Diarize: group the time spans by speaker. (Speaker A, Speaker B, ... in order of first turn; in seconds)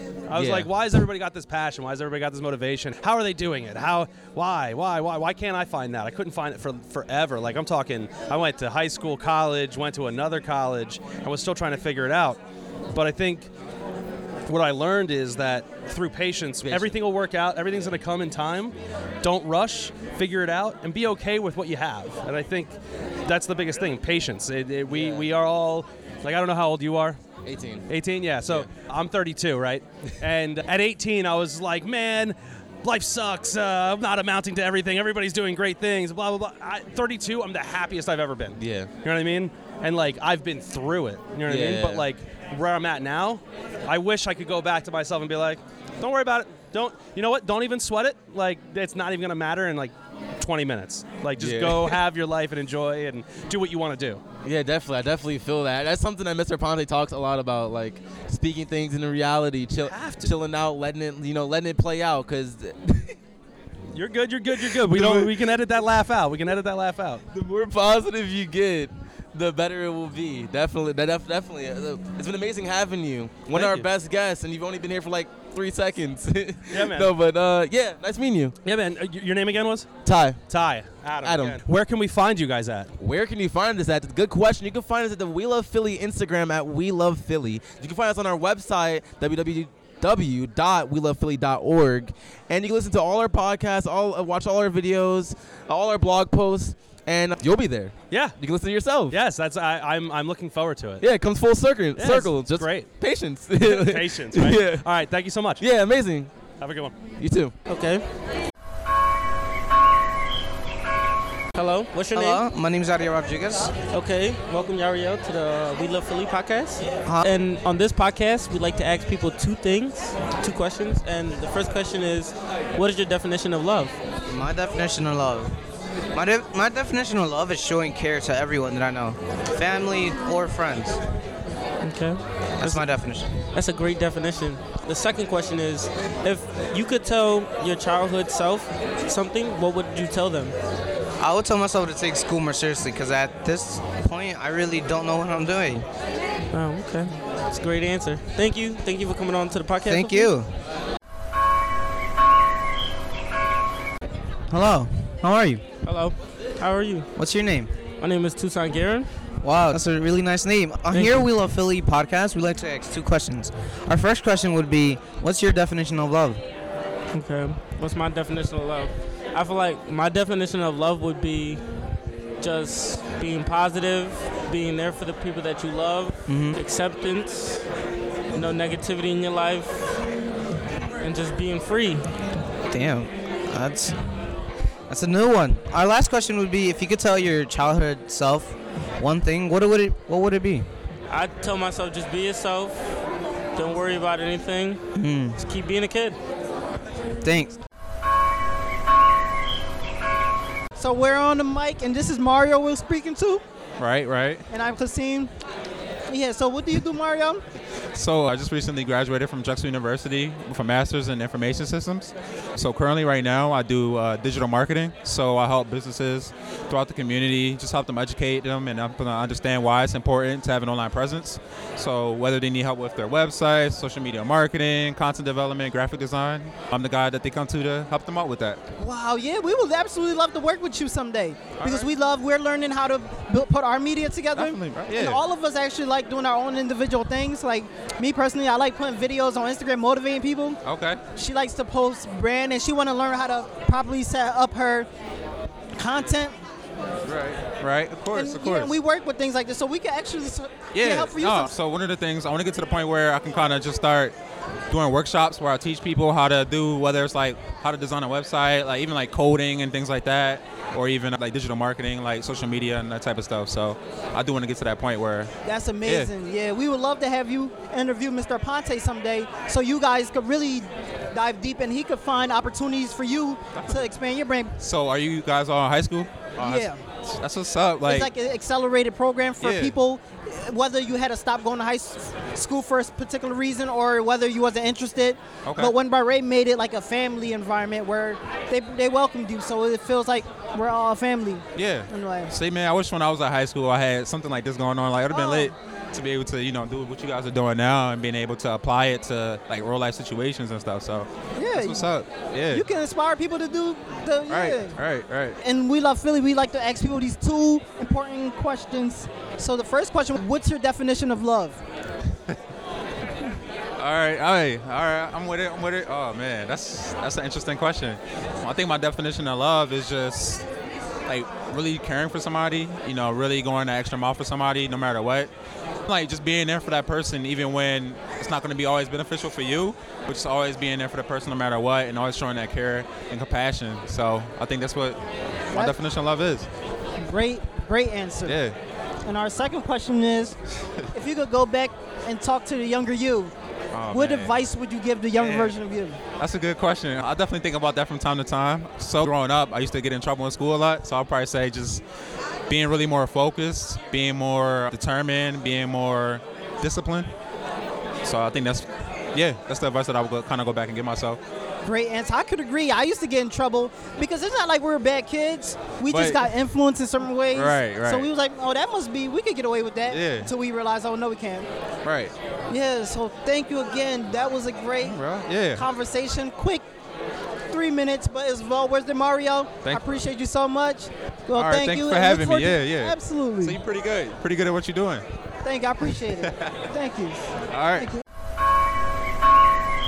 Speaker A: 0.3-12.4, 12.9-13.5, 14.5-27.2, 27.9-54.2, 59.9-60.4, 63.9-67.2, 73.5-73.9, 76.7-77.1, 78.6-79.9, 80.5-82.9, 98.1-98.4, 99.1-101.0, 102.0-102.9, 103.6-105.6, 106.6-107.0
Speaker B: 0.3-1.0, 16.6-17.0, 17.7-18.0, 24.9-25.3, 27.4-27.9, 28.4-28.7, 38.6-38.9, 41.5-42.1, 51.4-52.0, 54.4-63.2, 64.5-65.4, 67.3-78.5, 80.0-80.5, 81.2-81.6, 83.0-99.2, 101.0-104.9, 105.6-106.3, 107.2-107.5
Speaker C: 107.7-108.1, 111.5-112.4, 113.9-124.0, 131.8-132.8, 133.5-140.6, 146.5-150.3, 155.8-157.1, 158.0-159.1, 160.9-161.2, 167.1-171.7, 172.4-177.6, 178.3-180.0, 181.0-182.1, 191.1-192.9, 193.6-194.8, 195.4-196.2
Speaker D: 112.1-113.8, 124.3-125.5, 126.1-131.0, 132.6-133.3, 141.2-145.9, 149.9-150.5, 154.5-155.6, 157.1-157.7, 159.4-166.4, 176.3-176.6, 182.7-184.0, 184.9-190.7, 194.9-195.4, 197.2-197.6
Speaker E: 200.8-203.4, 204.5-205.3, 206.1-207.4, 228.8-240.6, 241.2-244.9, 245.8-246.4, 248.1-251.5, 265.4-274.5, 276.4-276.8, 277.9-292.3, 295.1-295.5, 301.4-301.9, 302.5-304.8, 305.4-311.6, 337.0-338.4, 339.1-340.4, 340.9-343.3, 343.9-346.0, 361.6-371.5, 372.5-375.0, 375.6-376.6, 377.5-383.6, 385.4-387.9
Speaker F: 203.8-204.5, 207.9-228.6, 231.6-231.9, 234.3-235.2, 240.6-241.0, 247.1-248.7, 250.7-254.2, 254.7-265.3, 265.8-266.1, 273.6-273.9, 274.6-278.1, 279.4-279.8, 285.4-285.7, 291.6-302.6, 304.3-305.4, 313.8-320.4, 321.1-325.3, 325.9-335.0, 335.5-336.5, 338.2-338.6, 343.7-344.3, 345.2-345.6, 346.2-351.8, 352.5-357.1, 358.0-361.2, 365.9-366.2, 367.3-368.1, 369.9-370.3, 371.9-372.1, 374.8-375.6, 381.4-385.1, 386.2-386.6, 387.5-387.9